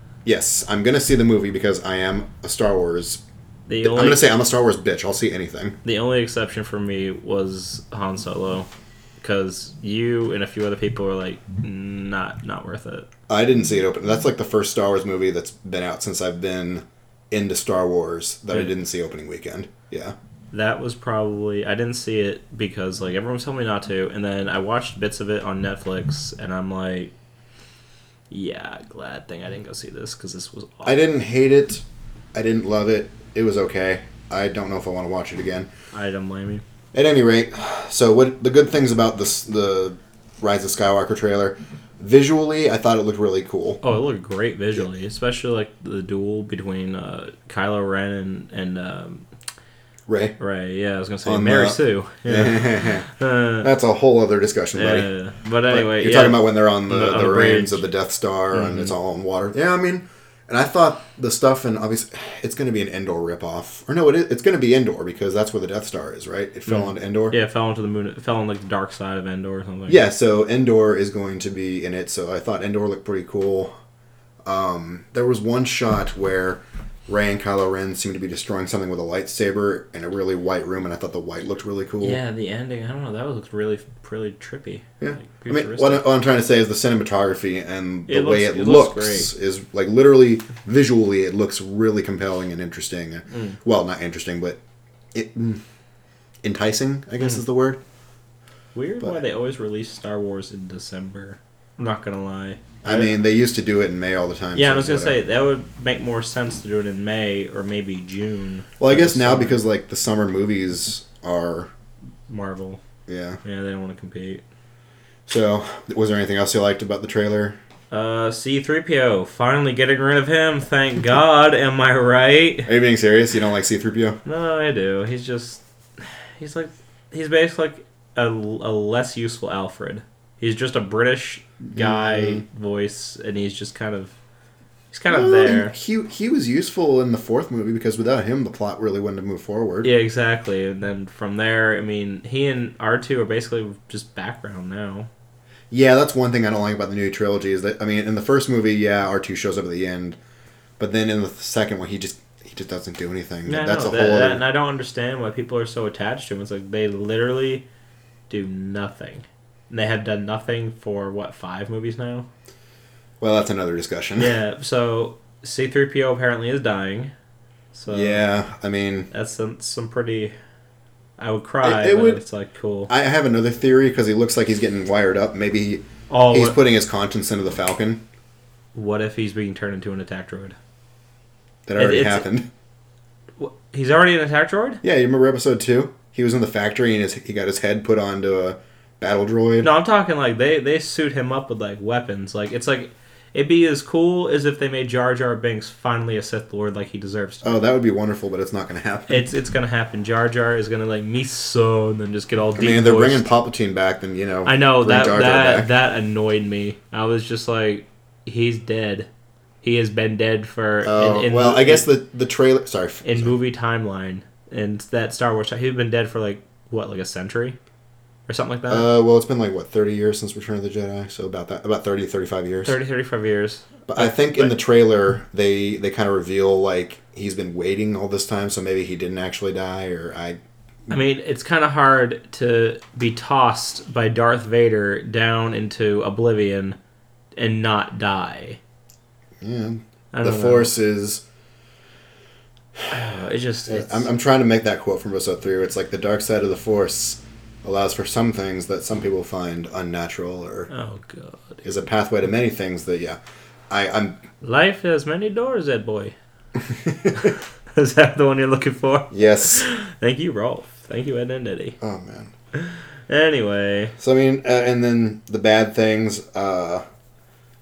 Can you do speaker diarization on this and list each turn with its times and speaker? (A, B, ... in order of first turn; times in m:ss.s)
0:00.2-0:03.2 A
0:03.7-0:04.2 B
0:03.8-0:05.8 A
0:05.8-0:08.7 B
0:09.2-0:13.1 B
0:13.3-0:20.1 A
0:20.5-0:27.1 B
0:28.3-0:31.0 B
0:30.8-0:35.7 A
0:35.9-0:36.6 B
0:36.9-0:43.8 A
0:43.8-0:49.3 B
0:50.1-0:50.4 A
0:50.4-0:53.7 B
0:51.2-0:55.1 A
0:54.7-0:57.8 B
0:55.7-1:07.4 A
0:58.5-0:58.9 B
1:06.7-1:10.0 B
1:09.9-1:13.8 A
1:14.4-1:22.2 A
1:22.0-1:26.0 B
1:25.0-1:34.6 A
1:28.1-1:29.3 B
1:33.3-1:33.6 B
1:35.1-1:35.6 A
1:36.4-1:37.8 A
1:38.7-1:43.1 B
1:42.8-1:45.2 A
1:44.5-1:49.6 B
1:48.8-1:51.7 A
1:52.3-1:52.8 B
1:53.1-1:53.4 A
1:53.4-1:54.4 B
1:55.3-1:57.6 A
1:57.9-2:02.7 B
2:02.6-2:04.2 A
2:04.2-2:14.1 B
2:11.7-2:12.4 A
2:14.9-2:15.7 B
2:15.1-2:19.9 A
2:19.8-2:25.1 B
2:25.7-2:30.2 A
2:30.8-2:34.4 A
2:33.4-2:37.6 B
2:38.3-2:42.3 B
2:43.2-2:44.3 A
2:44.2-2:47.1 B
2:47.7-2:48.2 B
2:47.9-2:49.1 A
2:49.1-2:50.3 B
2:51.2-2:52.9 B
2:51.6-2:52.2 A
2:52.9-2:58.0 A
2:56.1-2:56.6 B
2:58.7-3:00.6 B
3:01.6-3:02.5 A
3:01.8-3:02.2 B
3:03.4-3:04.8 B
3:04.8-3:09.7 A
3:09.6-3:17.4 B
3:17.4-3:19.2 A
3:19.1-3:23.2 B
3:22.6-3:25.7 A
3:24.4-3:29.1 B
3:29.6-3:31.9 B
3:30.8-3:33.3 A
3:33.0-3:37.6 B
3:38.3-3:38.8 B
3:38.7-3:42.7 A
3:42.6-3:44.6 B
3:43.9-3:50.4 A
3:50.9-3:56.8 B
3:57.3-3:58.6 B
3:59.4-4:01.2 A
4:00.1-4:00.7 B
4:02.9-4:04.1 B
4:03.7-4:10.7 A
4:10.7-4:11.6 B
4:11.6-4:13.2 A
4:13.7-4:14.2 A
4:14.4-4:16.1 B
4:16.6-4:17.4 A
4:17.2-4:21.8 B
4:19.1-4:19.6 A
4:21.8-4:22.3 A
4:22.5-4:24.0 B
4:24.0-4:26.8 A